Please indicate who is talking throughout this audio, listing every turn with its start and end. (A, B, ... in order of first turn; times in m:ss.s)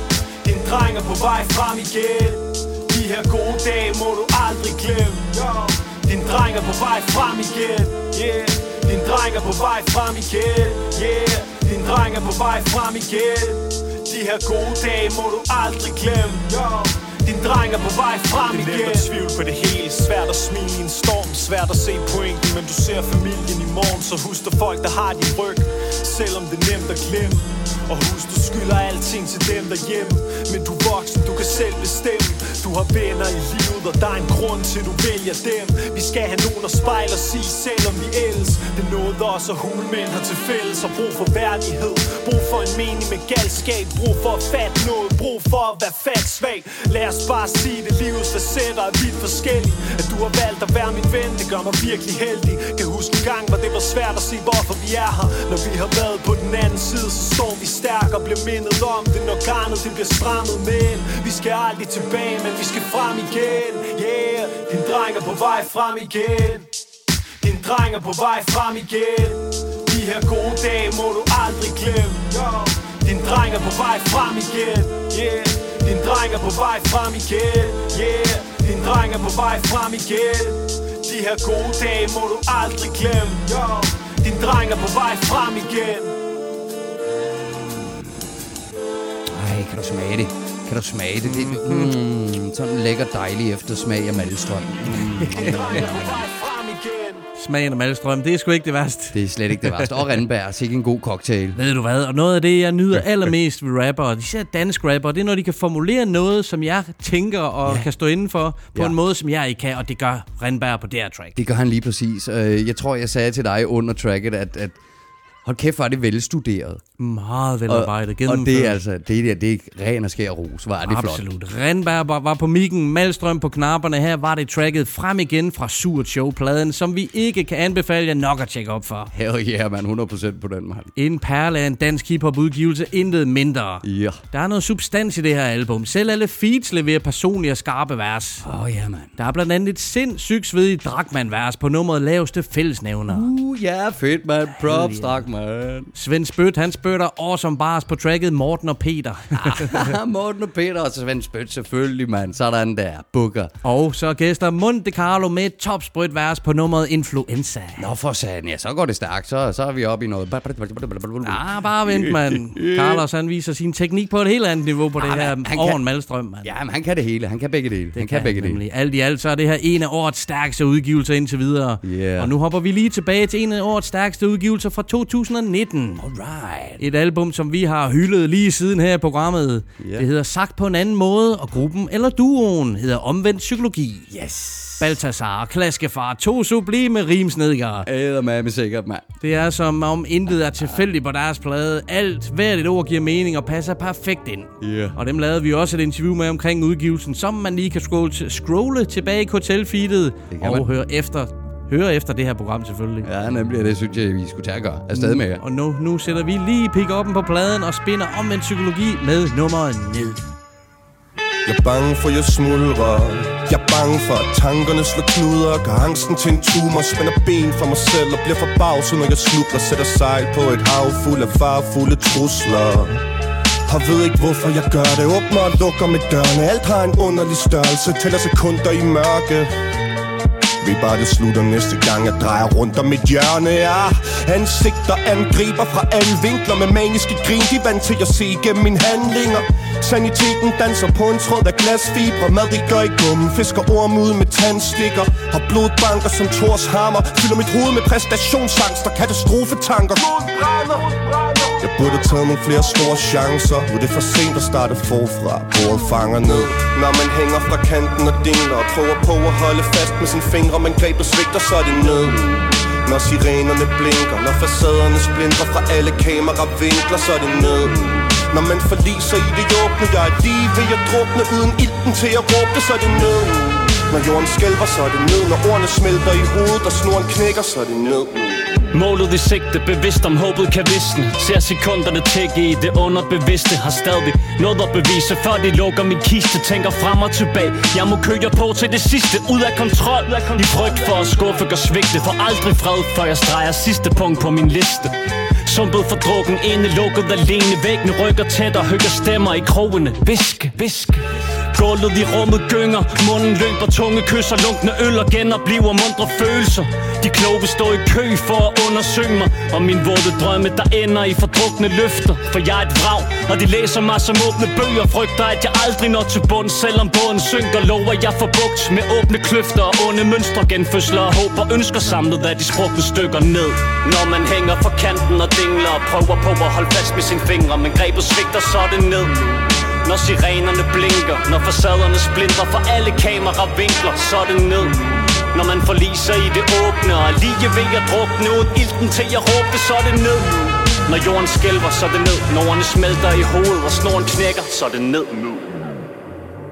0:00.4-1:06.7 A
0:18.5-0:19.1 B
1:07.4-1:26.1 A
1:27.4-1:28.0 C
1:29.3-1:36.2 C
1:31.4-1:31.9 B
1:35.2-1:35.8 B
1:35.3-1:37.2 A
1:37.4-1:39.9 B
1:39.1-1:41.6 C
1:41.6-1:51.4 B
1:51.4-1:54.8 C
1:55.4-1:56.8 C
1:57.0-1:58.8 B
1:57.7-2:01.2 C
2:00.8-2:09.1 B
2:09.1-2:10.9 C
2:11.0-2:18.4 B
2:13.8-2:14.2 C
2:18.4-2:19.1 C
2:19.2-2:23.3 B
2:23.1-2:25.9 C
2:24.6-2:25.2 B
2:25.9-2:29.9 B
2:29.4-2:33.5 C
2:33.6-2:37.9 B
2:37.8-2:43.0 C
2:41.2-2:46.5 B
2:45.0-2:45.8 C
2:46.4-2:48.6 C
2:47.9-2:56.0 B
2:51.8-2:52.3 C
2:56.0-2:56.8 C
2:56.8-3:04.1 B
2:59.8-3:00.1 C
3:04.1-3:05.0 C
3:04.8-3:07.9 B
3:07.8-3:09.1 C
3:09.2-3:23.1 B
3:10.5-3:10.8 C
3:14.6-3:15.0 C
3:20.3-3:20.7 C
3:23.0-3:25.4 C
3:25.0-3:30.2 B
3:31.5-3:43.0 D
3:43.7-3:49.5 D
3:50.6-4:10.8 D
4:11.6-4:38.6 D
4:38.7-4:54.9 E
4:55.4-5:29.3 E
5:29.8-5:34.8 E
5:35.3-5:45.6 E